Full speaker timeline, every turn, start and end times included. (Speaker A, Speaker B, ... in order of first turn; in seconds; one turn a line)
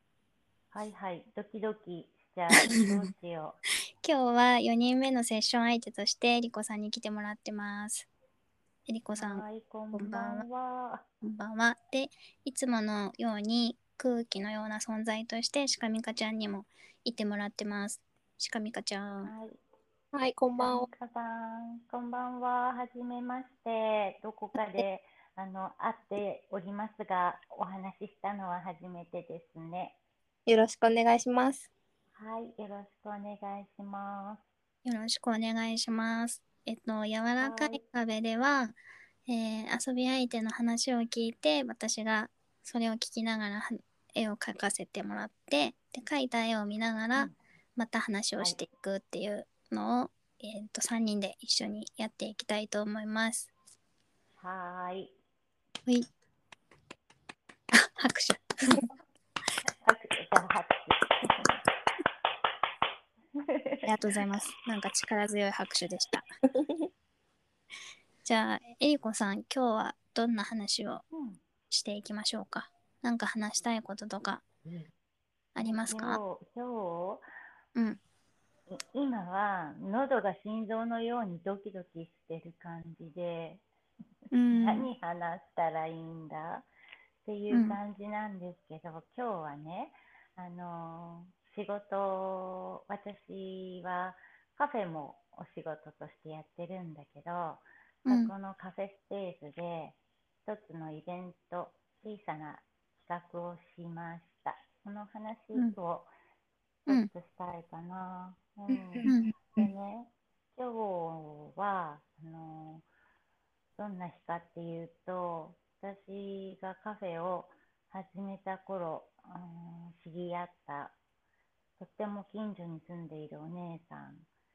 Speaker A: 0.7-3.6
Speaker B: 2.5-3.1
Speaker B: 4.0-8.1
Speaker B: 8.9-10.4
Speaker A: 9.2-11.0
Speaker B: 11.2-19.3
Speaker A: 19.2-19.6
Speaker C: 20.1-20.9
Speaker A: 20.6-30.0
Speaker C: 30.5-31.7
Speaker A: 32.2-34.4
Speaker B: 34.9-38.8
Speaker A: 37.4-37.8
Speaker B: 39.3-53.5
Speaker A: 54.4-55.1
Speaker B: 57.7-58.8
Speaker A: 59.7-61.5
Speaker A: 63.4-63.9
Speaker B: 63.8-66.2
Speaker B: 68.2-71.0
Speaker A: 71.1-71.4
Speaker B: 71.7-74.4
Speaker A: 74.6-74.9
Speaker B: 75.5-76.2
Speaker A: 75.6-77.2
Speaker A: 78.7-83.6
Speaker B: 84.3-84.9
Speaker A: 84.5-86.7
Speaker A: 87.2-106.1
Speaker B: 87.5-87.8
Speaker B: 98.1-98.3
Speaker A: 106.8-112.8
Speaker C: 108.7-109.7
Speaker B: 109.0-109.3
Speaker A: 113.8-120.9
Speaker A: 121.8-124.3